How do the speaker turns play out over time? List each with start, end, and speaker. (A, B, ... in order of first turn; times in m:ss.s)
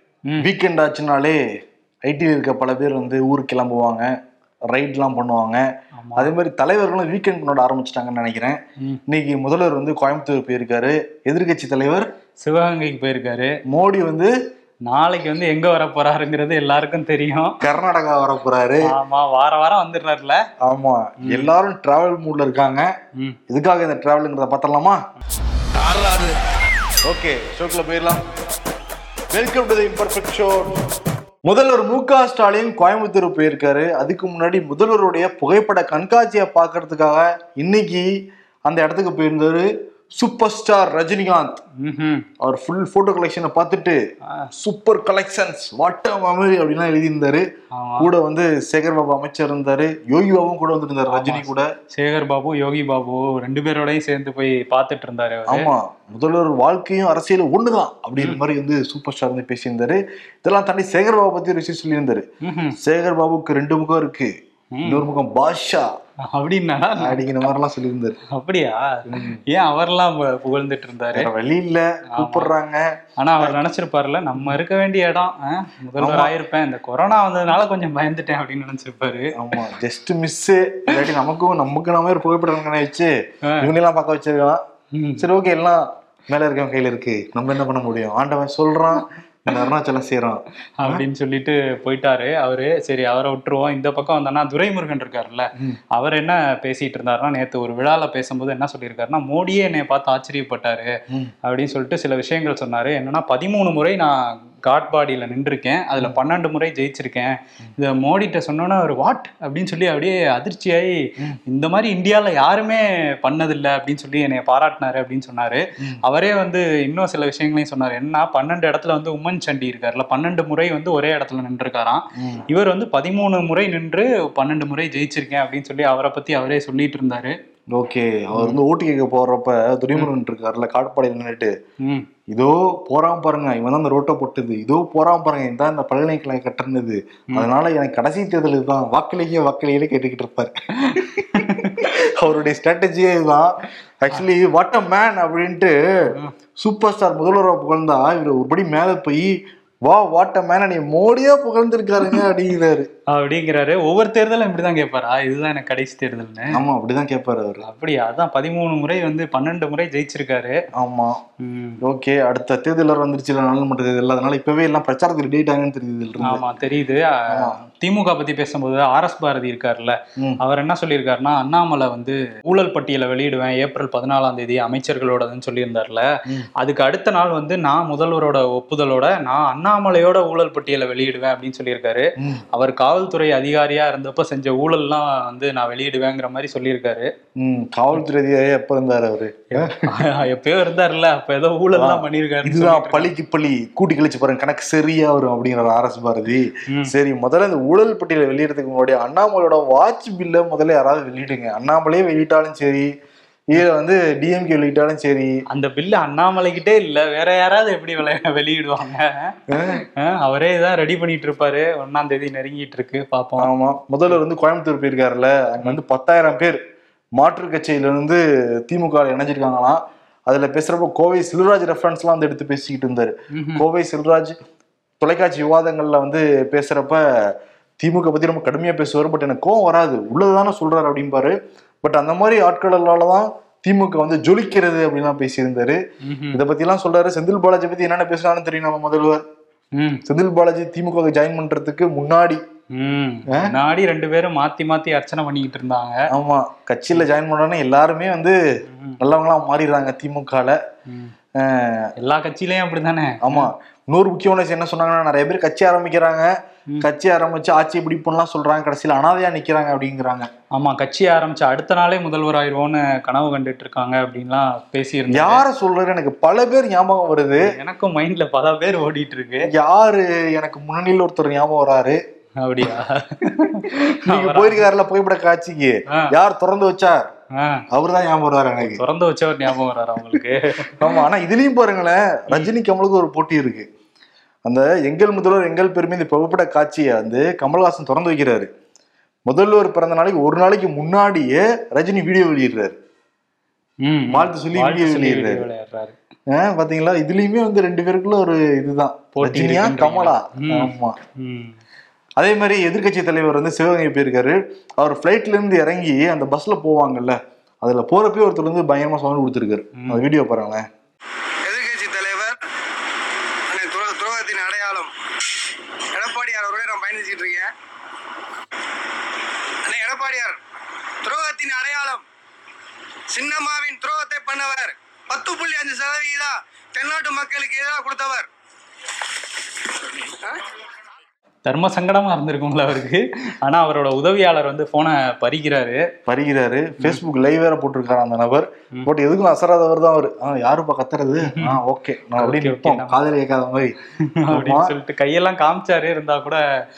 0:00.4-0:01.4 A
0:02.0-0:04.1 A
0:04.7-0:05.6 A
0:06.0-0:06.3 B
0:06.2-0:12.1 A
0:12.4-0:13.6 B
0:13.7-0:14.3 A
0:14.9-0:17.6 B
0:17.6-0:18.9 A
0:18.8-0:20.4 B
0:20.6-0:22.9 A
0:21.2-0:21.5 B
0:23.5-0:25.0 A
0:25.8-0:26.2 A
0:27.1-0:28.2 A
0:29.3-0:30.7 A
0:31.5-0:38.1 A
0:38.7-0:39.7 A
0:40.2-0:41.5 A
0:41.8-0:42.3 B
0:42.4-0:44.0 A
0:44.6-0:47.4 A
0:47.8-0:48.1 B
0:48.0-0:51.6 A
0:51.1-0:55.7 B
0:55.5-1:02.2 A
0:58.2-0:58.4 B
1:02.4-1:02.8 B
1:02.8-1:04.3 A
1:04.7-1:05.0 B
1:04.8-1:05.9 A
1:06.2-1:07.3 B
1:06.9-1:08.2 A
1:08.3-1:11.3 B
1:09.1-1:09.4 A
1:11.1-1:12.8 A
1:12.2-1:12.5 B
1:13.2-1:19.6 B
1:16.0-1:16.3 A
1:19.4-1:24.6 A
1:23.4-1:23.7 B
1:24.9-1:25.2 B
1:25.2-1:31.0 A
1:30.8-1:40.9 B
1:41.4-2:07.4 B
2:02.2-2:02.4 A
2:07.7-2:11.5 A
2:08.4-2:08.6 B
2:12.3-2:25.8 A
2:20.8-2:21.9 B
2:26.6-2:29.3 A
2:29.9-2:32.9 A
2:33.1-2:36.6 B
2:36.5-2:37.6 A
2:37.6-2:40.6 B
2:40.7-2:41.2 A
2:41.4-2:41.8 B
2:41.8-2:46.4 A
2:46.2-2:56.1 B
2:47.3-2:47.6 A
2:56.6-3:07.1 B
3:07.4-3:09.9 A
3:09.5-3:13.1 B
3:11.7-3:22.9 A
3:23.5-3:25.3 A
3:25.5-3:33.5 B
3:29.5-3:29.8 A
3:33.4-3:36.6 A
3:37.2-3:44.4 A
3:43.3-3:43.6 B
3:45.0-3:47.0 A
3:47.8-3:55.8 A
3:56.0-3:56.4 B
3:56.3-3:59.2 A
3:59.8-4:00.0 B
4:00.1-4:02.4 A
4:02.7-4:06.0 B
4:06.1-4:08.4 A
4:08.7-4:09.0 B
4:09.0-4:10.6 A
4:10.9-4:11.1 B
4:11.4-4:11.9 A
4:12.0-4:13.5 B
4:13.2-4:16.3 A
4:16.8-4:20.3 A
4:20.5-4:25.4 B
4:25.1-4:27.5 A
4:27.4-4:29.5 B
4:29.5-4:32.0 A
4:32.4-4:34.7 B
4:34.1-4:37.1 A
4:37.4-4:37.6 B
4:37.7-4:38.8 A
4:38.6-4:41.0 B
4:40.8-4:43.7 A
4:44.5-4:48.5 A
4:49.3-4:52.8 A
4:53.8-4:56.0 B
4:54.1-4:55.4 A
4:56.3-5:01.0 A
4:59.2-5:01.6 B
5:02.2-5:10.6 A
5:09.8-5:10.0 B
5:11.4-5:12.4 C
5:13.5-5:15.0 C
5:15.9-5:17.6 C
5:19.6-5:20.4 C
5:21.0-5:22.0 C
5:23.1-5:28.3 C
5:29.7-5:30.4 C
5:31.4-5:35.8 B
5:36.1-5:43.8 A
5:41.2-5:41.6 B
5:42.2-5:43.0 B
5:44.2-5:46.4 B
5:44.3-5:44.7 A